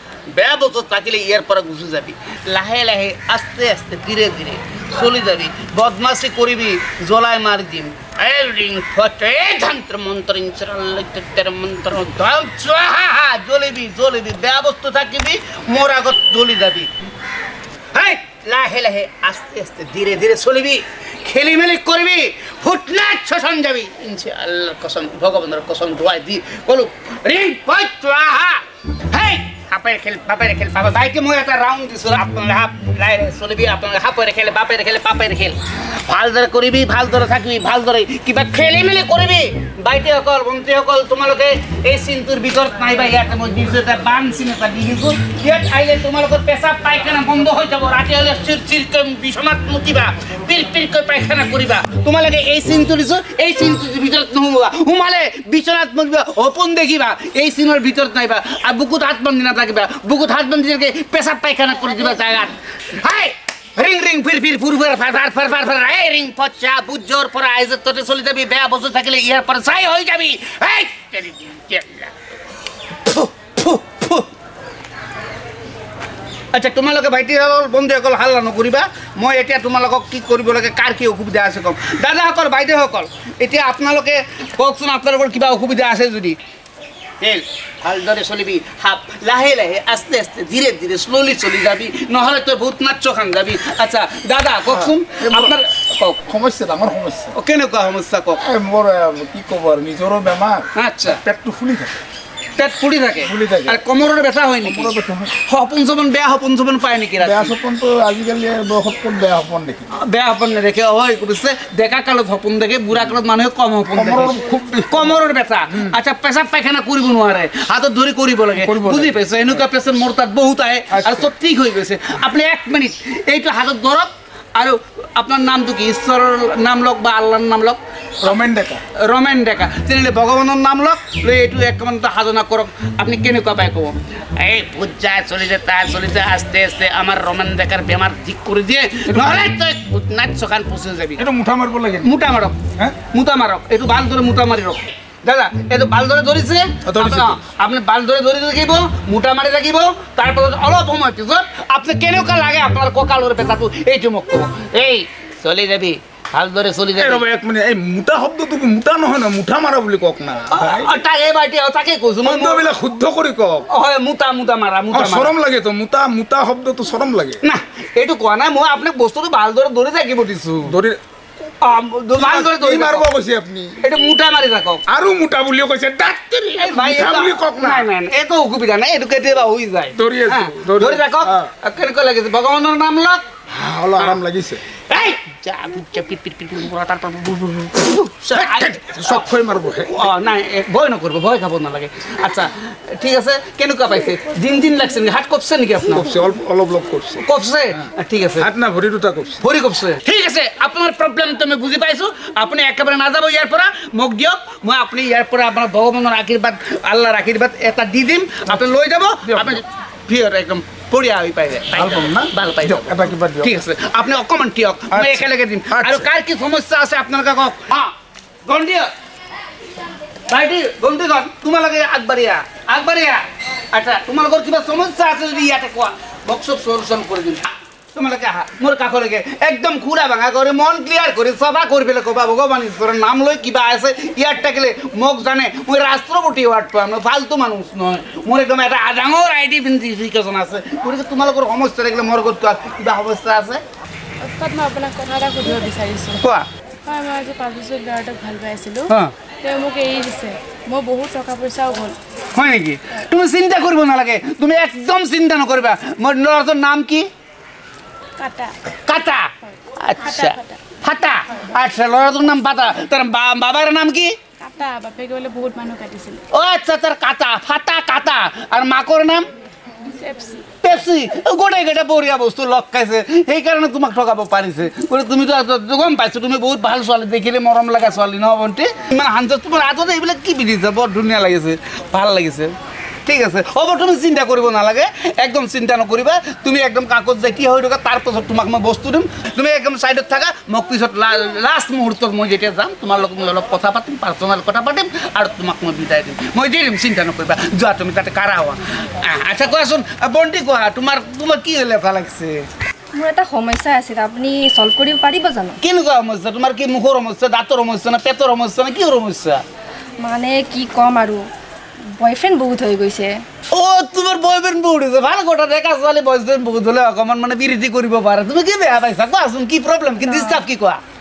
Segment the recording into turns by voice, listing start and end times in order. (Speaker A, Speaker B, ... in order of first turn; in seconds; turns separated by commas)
Speaker A: 0.3-16.9, Speaker A: 17.9-72.1, Speaker A: 73.0-74.3, Speaker A: 76.5-86.4, Speaker A: 87.2-96.2, Speaker B: 94.7-95.5, Speaker B: 96.2-97.3, Speaker A: 97.3-98.4, Speaker B: 98.4-100.7, Speaker A: 100.7-101.2, Speaker B: 101.2-101.9, Speaker A: 102.5-104.9, Speaker B: 103.2-103.8, Speaker B: 104.6-105.3, Speaker A: 105.4-107.5, Speaker B: 107.2-109.9, Speaker A: 109.9-128.4, Speaker B: 113.9-115.2, Speaker B: 118.6-119.2, Speaker B: 120.9-121.3, Speaker B: 128.2-128.8, Speaker A: 128.9-141.2, Speaker B: 141.2-142.1, Speaker A: 142.0-157.2, Speaker B: 146.8-147.4, Speaker B: 156.9-160.9, Speaker A: 160.5-162.6, Speaker B: 162.2-163.7, Speaker A: 163.7-165.3, Speaker B: 164.9-167.4, Speaker A: 167.4-170.8, Speaker B: 170.7-171.0, Speaker A: 171.6-173.1, Speaker B: 172.2-173.7, Speaker A: 173.8-174.8, Speaker B: 174.9-177.9, Speaker A: 176.6-183.2, Speaker B: 179.9-181.5, Speaker B: 183.5-184.6, Speaker A: 184.9-189.3, Speaker B: 188.3-189.9, Speaker A: 189.8-196.1, Speaker B: 195.9-197.2, Speaker A: 197.2-198.5, Speaker B: 198.4-199.4, Speaker A: 199.4-217.9, Speaker B: 209.2-209.6, Speaker B: 211.7-213.5, Speaker B: 214.9-216.1, Speaker A: 218.4-218.9, Speaker A: 220.3-243.6, Speaker C: 244.2-246.2, Speaker A: 246.2-246.5, Speaker C: 246.8-248.9, Speaker C: 249.4-252.0, Speaker A: 252.3-257.1, Speaker C: 258.2-258.6, Speaker A: 258.9-264.1, Speaker C: 260.0-260.6, Speaker C: 264.4-266.2, Speaker A: 266.3-269.2, Speaker C: 270.0-270.4, Speaker A: 270.6-282.5, Speaker A: 283.1-302.5, Speaker D: 302.9-305.6, Speaker A: 305.6-309.4, Speaker D: 310.0-311.3, Speaker D: 311.9-313.2, Speaker A: 313.5-320.8, Speaker D: 320.1-320.4